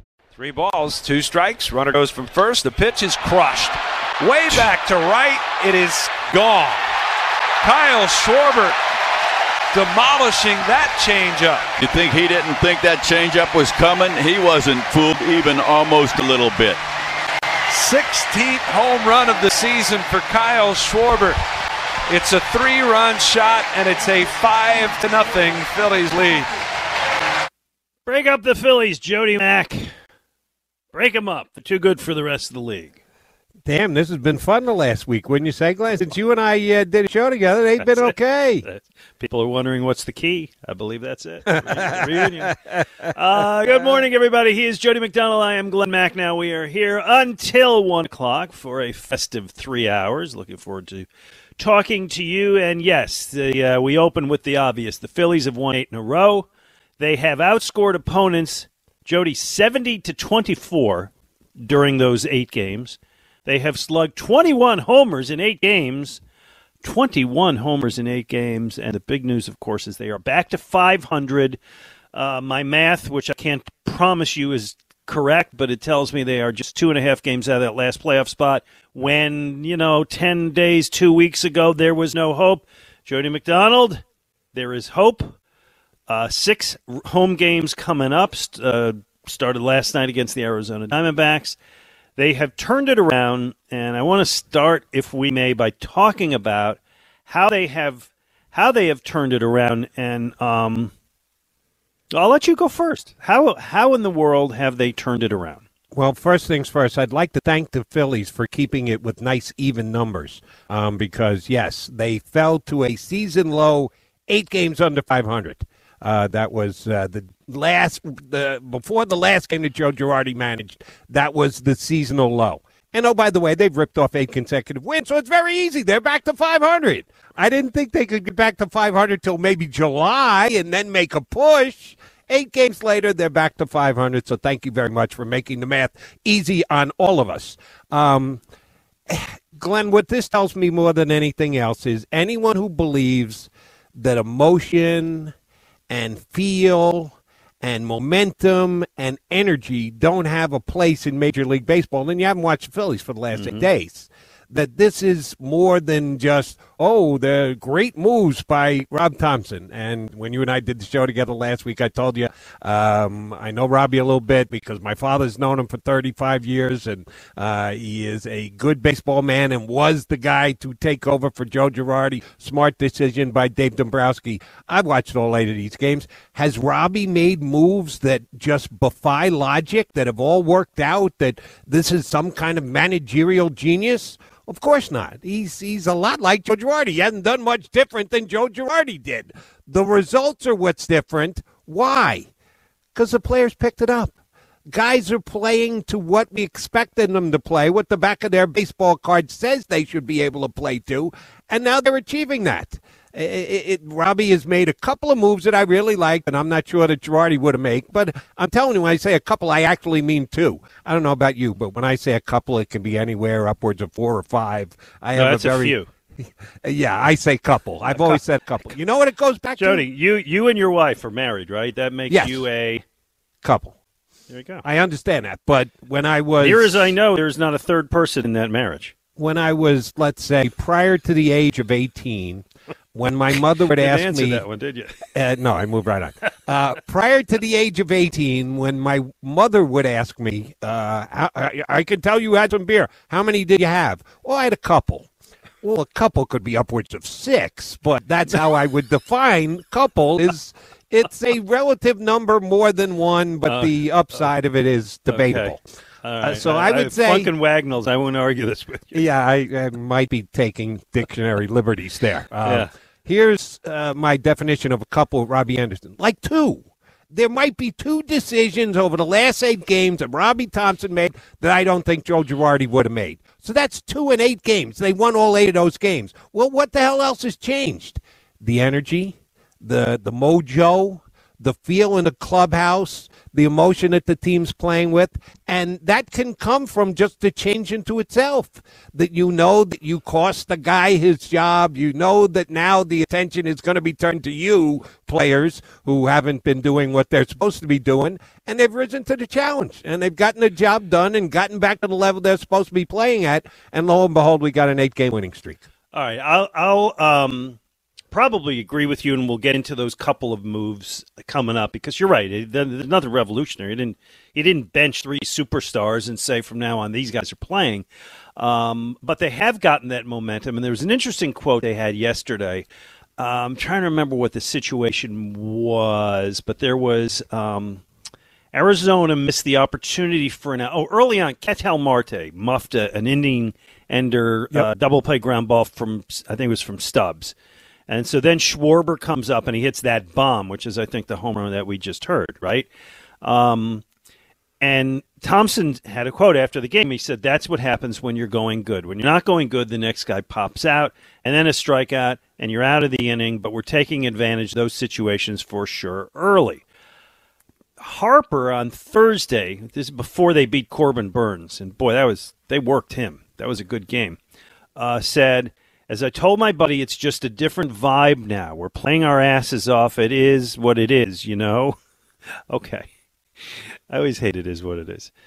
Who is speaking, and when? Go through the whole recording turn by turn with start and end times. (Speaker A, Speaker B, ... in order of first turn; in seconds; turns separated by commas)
Speaker A: 0.3-6.9, Speaker A: 7.6-8.8, Speaker A: 9.7-11.7, Speaker B: 11.8-16.8, Speaker A: 17.7-21.4, Speaker A: 22.1-26.5, Speaker C: 28.1-29.9, Speaker C: 30.9-33.0, Speaker D: 33.7-38.7, Speaker C: 37.8-51.1, Speaker D: 41.5-42.7, Speaker C: 51.6-56.5, Speaker C: 57.0-66.2, Speaker C: 66.8-71.6, Speaker C: 72.1-84.0, Speaker C: 84.5-85.4, Speaker C: 86.1-91.6, Speaker C: 92.2-100.9, Speaker C: 102.1-105.6, Speaker D: 105.9-138.4, Speaker D: 139.1-145.3, Speaker D: 145.9-192.3, Speaker C: 153.3-153.7, Speaker D: 192.9-194.1, Speaker D: 194.7-215.8, Speaker C: 215.2-215.9, Speaker D: 216.6-219.8, Speaker C: 217.9-218.2, Speaker C: 219.6-222.8, Speaker D: 222.1-222.5, Speaker D: 223.4-223.8, Speaker C: 224.3-224.6, Speaker D: 224.6-226.9, Speaker C: 226.4-228.9, Speaker D: 229.2-234.4, Speaker C: 233.7-235.0, Speaker D: 235.1-245.1, Speaker D: 245.6-255.6, Speaker C: 253.5-253.8, Speaker C: 255.1-259.0, Speaker D: 256.2-257.3, Speaker D: 258.9-305.6, Speaker C: 262.4-262.7, Speaker C: 305.9-307.6, Speaker C: 308.1-317.9, Speaker C: 318.4-322.7, Speaker C: 323.2-327.8, Speaker C: 328.5-337.3, Speaker C: 337.9-342.7, Speaker C: 343.2-343.8, Speaker C: 344.6-356.6, Speaker C: 357.8-364.2, Speaker C: 364.8-371.8, Speaker C: 372.5-372.9, Speaker C: 373.5-375.1